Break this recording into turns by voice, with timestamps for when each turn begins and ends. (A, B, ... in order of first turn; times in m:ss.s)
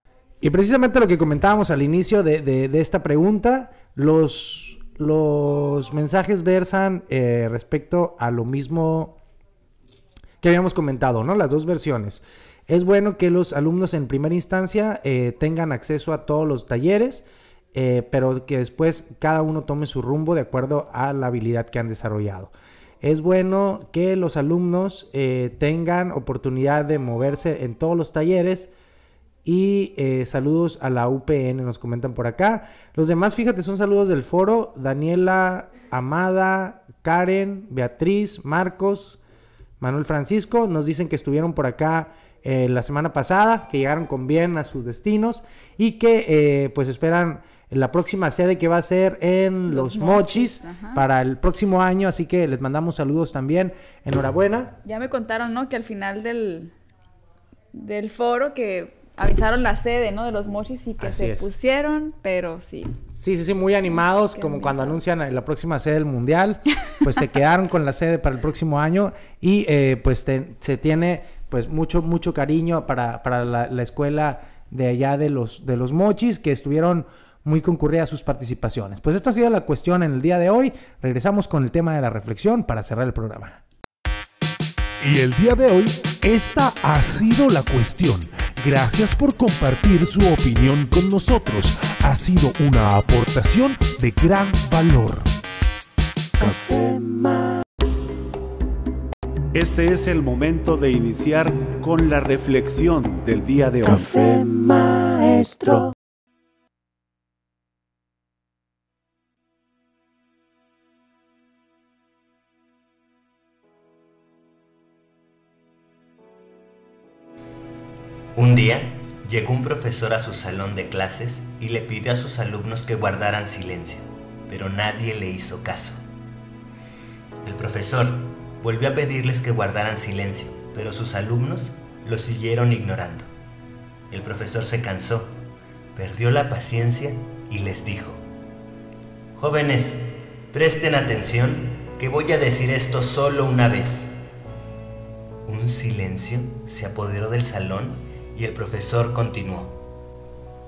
0:00.4-0:09.2 A
0:10.4-0:28.7 A
0:29.4-0:39.2 A
0:39.8-0:54.8 A
0:49.7-0:51.0 B
0:54.8-0:56.7 B
0:57.7-1:03.0 B
1:01.0-1:01.5 A
1:03.2-1:23.6 A
1:04.3-1:05.1 B
1:25.0-1:35.3 C
1:36.4-1:37.6 D
1:39.5-1:44.1 E
1:43.8-1:45.9 D
1:58.4-2:06.0 F
2:07.4-2:13.3 F
2:14.1-2:15.3 F
2:16.0-2:18.2 F
2:19.4-2:24.3 F
2:25.5-2:29.8 F